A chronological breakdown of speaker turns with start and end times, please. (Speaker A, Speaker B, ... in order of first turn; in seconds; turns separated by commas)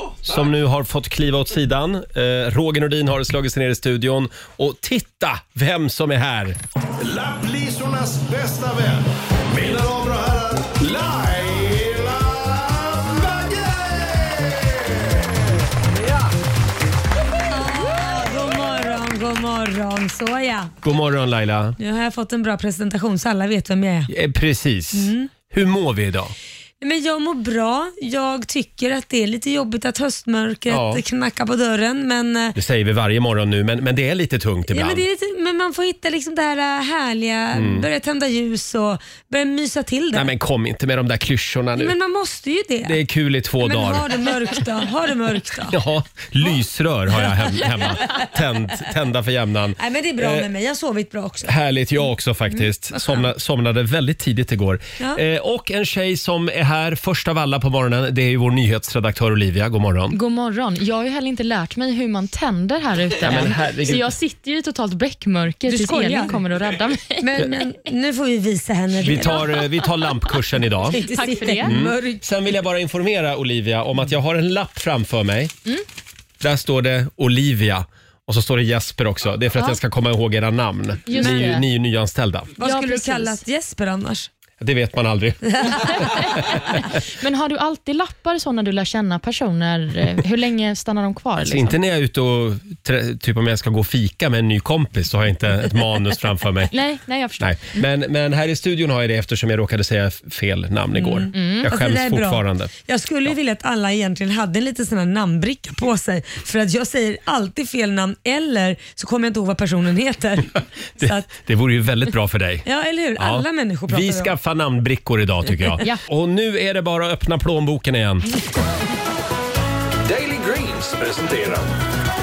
Speaker A: 0.2-6.6, Speaker B: 7.0-15.3, Speaker C: 17.5-20.7, Speaker A: 20.8-21.8, Speaker C: 21.8-24.1, Speaker A: 24.1-26.4, Speaker C: 24.9-25.3, Speaker C: 26.8-32.6, Speaker A: 30.7-31.0, Speaker A: 32.6-35.1, Speaker C: 34.7-40.3, Speaker A: 37.5-37.9, Speaker A: 40.1-42.0, Speaker C: 41.8-43.0, Speaker A: 42.9-44.2, Speaker C: 43.6-45.8, Speaker A: 45.7-50.5, Speaker C: 47.3-48.2, Speaker C: 49.8-51.5, Speaker A: 51.5-60.2, Speaker C: 52.6-53.2, Speaker D: 60.1-67.4, Speaker A: 63.2-64.1, Speaker C: 65.7-66.4, Speaker C: 67.2-69.7, Speaker A: 69.0-71.0, Speaker C: 70.9-72.2, Speaker D: 71.1-71.8, Speaker A: 71.6-75.5, Speaker A: 76.4-82.6, Speaker D: 81.1-81.6, Speaker C: 81.2-81.6, Speaker C: 82.6-84.3, Speaker D: 82.6-83.4, Speaker A: 84.6-86.3, Speaker C: 85.5-85.8, Speaker D: 87.0-91.8, Speaker A: 91.4-96.7, Speaker D: 96.7-97.8, Speaker A: 97.4-102.7, Speaker C: 101.0-111.3, Speaker D: 101.3-101.7, Speaker A: 111.0-112.7, Speaker C: 112.7-114.3, Speaker A: 113.2-118.3, Speaker B: 120.0-121.7